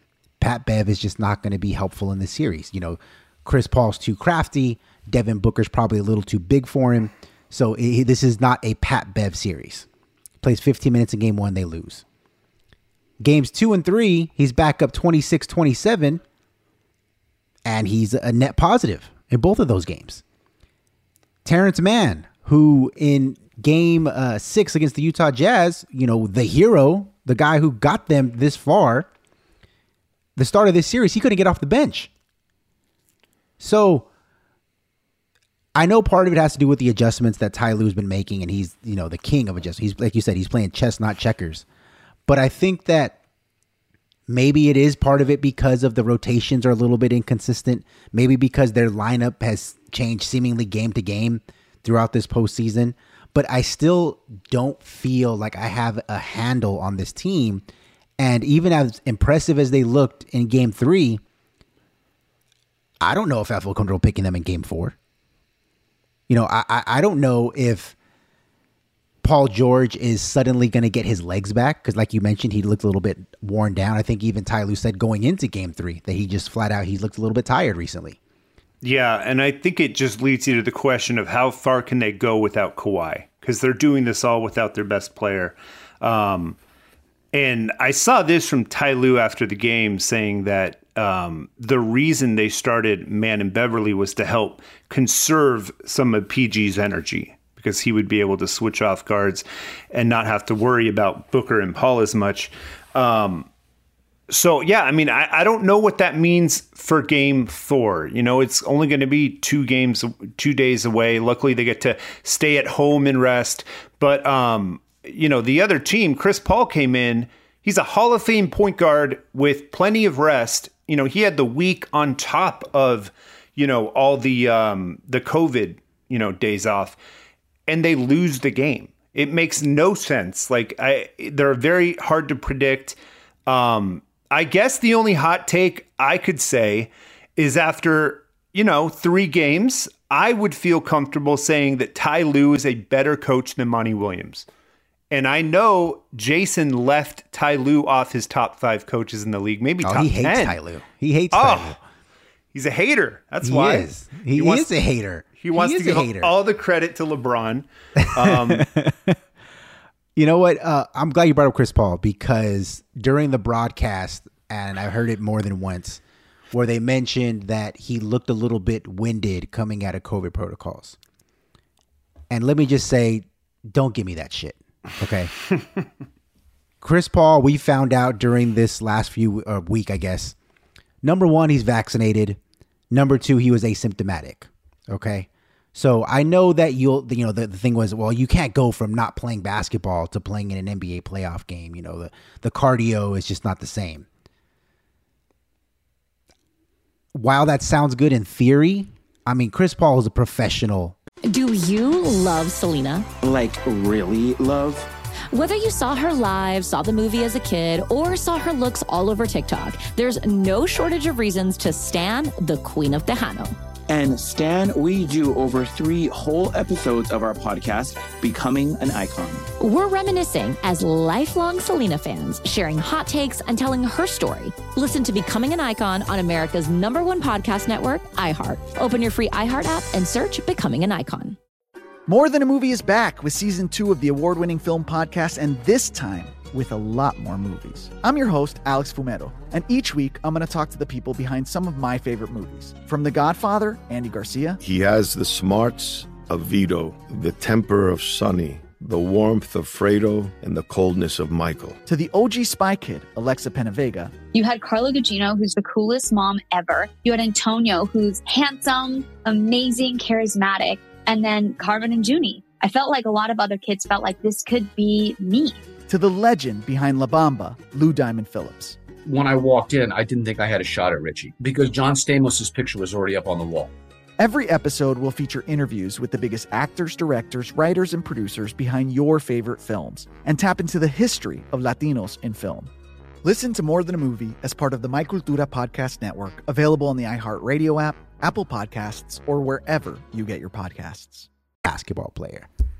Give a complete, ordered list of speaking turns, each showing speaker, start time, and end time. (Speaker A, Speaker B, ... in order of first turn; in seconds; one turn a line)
Speaker A: 0.4-9.9
Speaker A: 10.4-12.0
Speaker A: 13.2-16.2
Speaker A: 17.6-20.2
Speaker A: 21.4-29.1
Speaker A: 30.4-32.1
Speaker A: 33.6-34.1
Speaker A: 35.7-41.6
Speaker A: 42.3-43.2
Speaker A: 44.3-57.6
Speaker A: 58.2-61.2
Speaker A: 63.0-65.0
Speaker A: 66.3-67.9
Speaker A: 69.2-78.2
Speaker B: 78.8-86.6
Speaker B: 87.3-103.5
Speaker B: 104.3-127.0
Speaker B: 127.7-144.5
Speaker B: 145.1-150.6
Speaker A: 149.8-151.8
Speaker B: 151.3-151.8
Speaker B: 152.5-154.7
Speaker A: 153.4-156.3
Speaker B: 155.4-158.6
Speaker A: 158.0-159.2
Speaker A: 160.2-171.0
Speaker A: 172.3-175.3
Speaker A: 176.8-180.3
Speaker A: 181.0-182.4
Speaker A: 182.9-194.1
Speaker A: 197.1-200.9
Speaker C: 201.3-203.1
Speaker D: 203.2-204.9
Speaker C: 205.3-213.5
Speaker D: 213.9-219.5
Speaker C: 219.6-231.4
Speaker E: 232.1-244.6
Speaker F: 244.6-251.8
Speaker E: 251.8-254.1
Speaker G: 254.3-265.6
Speaker E: 265.9-268.8
Speaker H: 269.0-273.7
Speaker E: 274.2-282.7
Speaker E: 283.2-291.3
Speaker A: 291.6-292.5